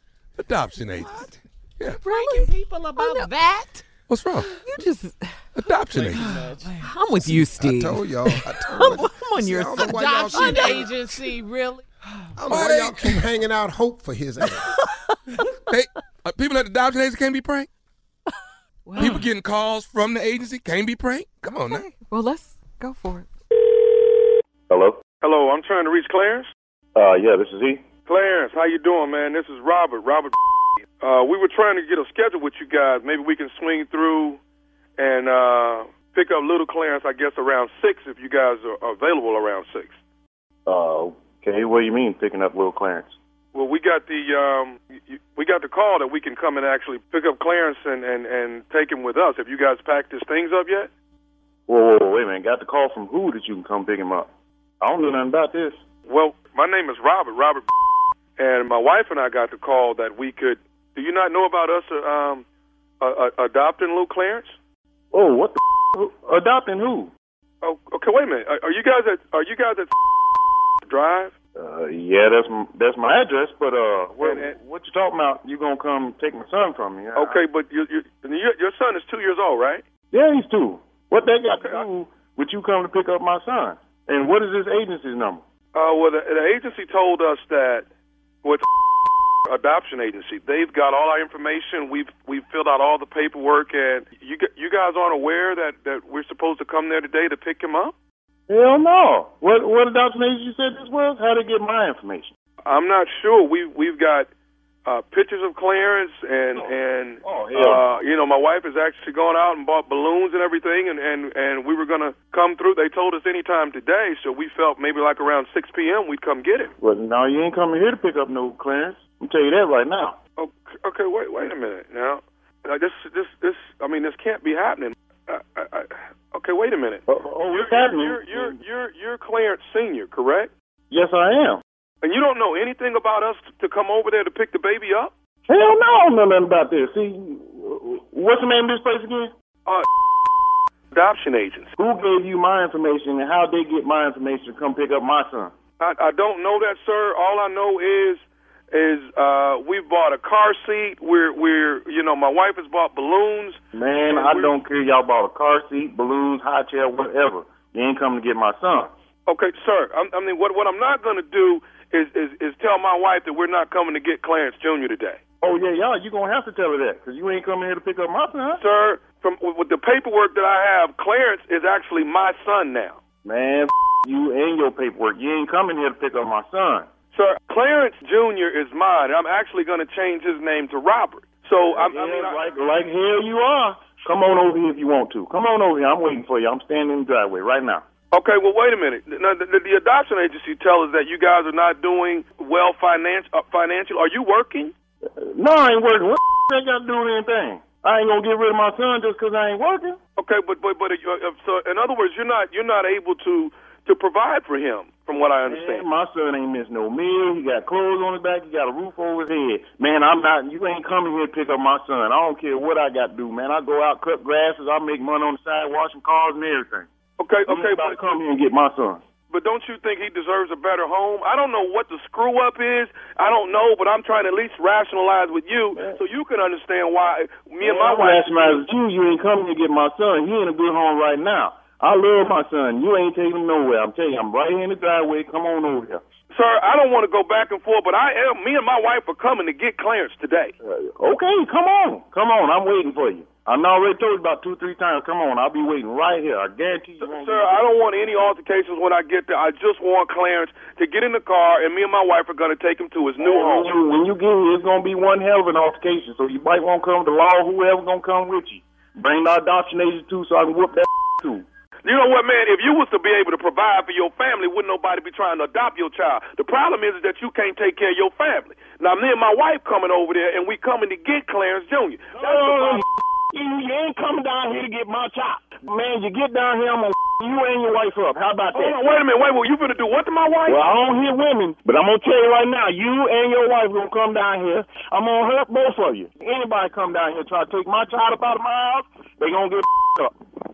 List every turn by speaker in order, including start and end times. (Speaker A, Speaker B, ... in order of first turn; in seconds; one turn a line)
Speaker A: 0.4-1.3
Speaker B: 2.0-3.8
Speaker C: 2.0-3.3
Speaker A: 4.1-4.5
Speaker C: 4.5-5.4
Speaker A: 5.5-6.3
Speaker B: 5.8-6.9
Speaker C: 6.1-10.9
Speaker D: 7.2-10.9
Speaker B: 9.8-11.8
Speaker D: 12.3-14.7
Speaker A: 12.5-13.2
Speaker A: 15.6-17.7
Speaker C: 18.8-19.2
Speaker A: 19.0-21.9
Speaker C: 21.7-23.3
Speaker E: 24.7-25.0
Speaker F: 25.2-26.5
Speaker E: 26.9-27.8
Speaker F: 28.1-30.3
Speaker F: 31.0-34.4
Speaker F: 35.0-40.0
Speaker E: 40.6-43.1
Speaker F: 43.5-50.9
Speaker E: 51.7-54.3
Speaker E: 54.8-55.8
Speaker F: 56.1-57.6
Speaker F: 58.4-62.4
Speaker F: 63.0-64.5
Speaker E: 65.1-67.1
Speaker F: 67.6-69.9
Speaker F: 70.8-71.3
Speaker E: 71.5-77.4
Speaker F: 74.2-74.5
Speaker F: 77.2-79.8
Speaker E: 80.1-85.4
Speaker F: 81.5-81.8
Speaker F: 85.7-87.8
Speaker F: 89.5-97.9
Speaker E: 98.5-102.3
Speaker F: 102.6-104.3
Speaker F: 104.8-116.7
Speaker E: 107.2-107.8
Speaker E: 116.8-120.2
Speaker F: 120.4-130.5
Speaker E: 127.1-128.6
Speaker E: 130.9-131.6
Speaker F: 132.0-135.1
Speaker E: 135.5-139.3
Speaker F: 140.9-141.7
Speaker E: 141.8-145.5
Speaker F: 145.8-154.5
Speaker E: 153.7-158.9
Speaker F: 159.3-165.2
Speaker E: 165.4-168.6
Speaker F: 168.6-173.0
Speaker E: 173.2-176.9
Speaker F: 177.1-182.4
Speaker E: 181.7-187.8
Speaker F: 188.1-194.7
Speaker E: 195.0-200.0
Speaker F: 200.2-205.9
Speaker E: 205.5-216.9
Speaker F: 217.2-218.2
Speaker E: 217.5-219.0
Speaker F: 219.3-228.6
Speaker E: 227.6-236.0
Speaker F: 236.3-240.5
Speaker E: 240.6-247.6
Speaker F: 247.0-253.7
Speaker E: 253.2-261.4
Speaker F: 261.8-272.9
Speaker E: 272.1-279.0
Speaker F: 278.5-280.6
Speaker E: 280.5-290.1